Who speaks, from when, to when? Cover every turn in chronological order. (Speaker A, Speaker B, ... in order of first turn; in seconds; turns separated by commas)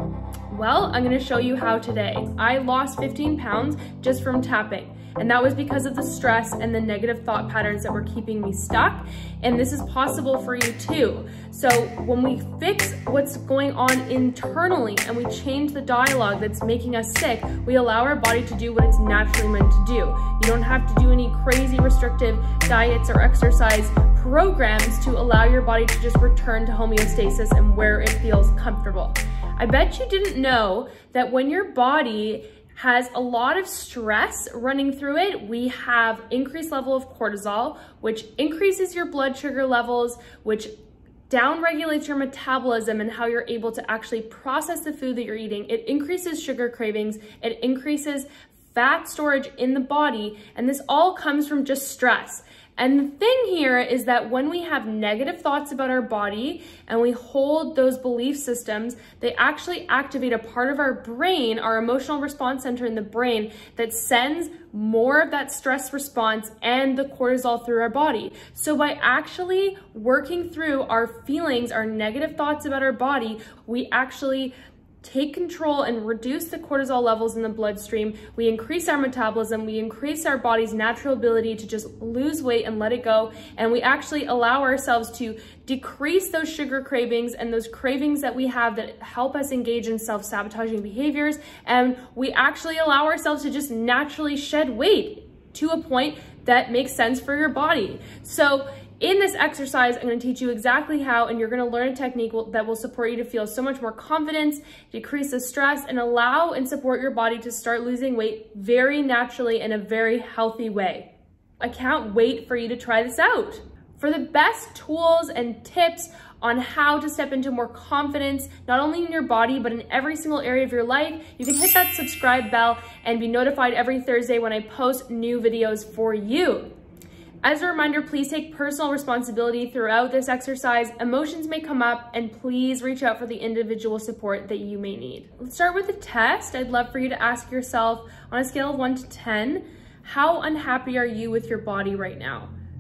Speaker A: 0.5-40.7, Speaker A: 41.3-126.7, Speaker A: 127.4-142.5